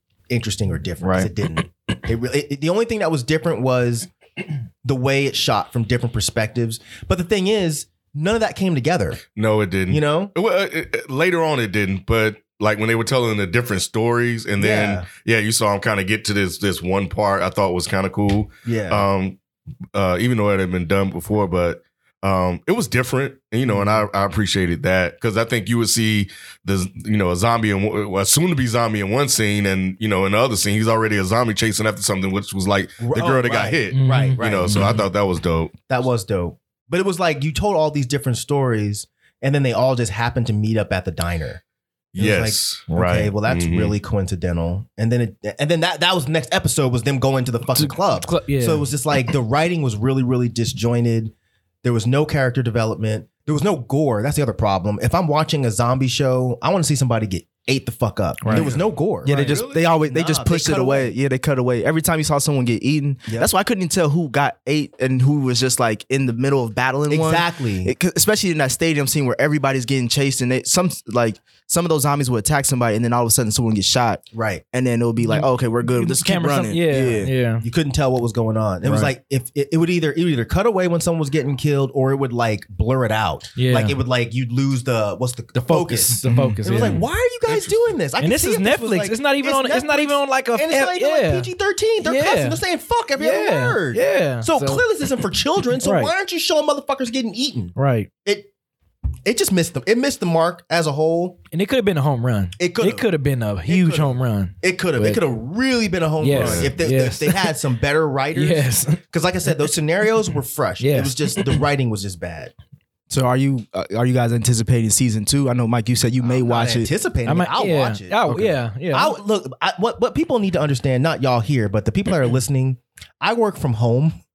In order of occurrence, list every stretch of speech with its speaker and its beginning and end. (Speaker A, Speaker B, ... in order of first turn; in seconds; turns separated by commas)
Speaker A: 0.3-4.1, Speaker B: 1.0-1.3, Speaker A: 4.8-9.2, Speaker C: 9.3-19.4, Speaker A: 9.9-10.3, Speaker A: 14.6-15.1, Speaker A: 18.7-19.1, Speaker C: 19.9-35.7, Speaker A: 23.7-24.1, Speaker A: 33.0-35.0, Speaker B: 33.9-35.0, Speaker A: 35.9-41.6, Speaker C: 42.1-44.0, Speaker A: 42.2-61.1, Speaker B: 47.7-48.9, Speaker B: 58.4-58.7, Speaker D: 59.2-77.3, Speaker C: 59.3-59.8, Speaker A: 67.1-67.9, Speaker A: 74.3-74.6, Speaker B: 75.2-77.7, Speaker A: 77.6-98.5, Speaker B: 78.8-79.1, Speaker B: 83.6-84.0, Speaker B: 85.5-87.0, Speaker D: 86.2-87.0, Speaker C: 87.5-87.8, Speaker B: 88.2-91.5, Speaker B: 92.0-92.6, Speaker B: 93.2-94.8, Speaker B: 95.8-96.1, Speaker B: 97.8-98.1, Speaker A: 99.2-101.4, Speaker B: 101.5-105.2, Speaker A: 102.6-103.1, Speaker A: 103.7-112.5, Speaker B: 106.2-107.5, Speaker C: 106.3-106.7, Speaker B: 108.4-109.0, Speaker B: 110.8-111.6, Speaker D: 113.1-116.9, Speaker A: 116.2-118.2, Speaker B: 117.3-119.2, Speaker D: 118.3-118.5, Speaker A: 118.9-124.2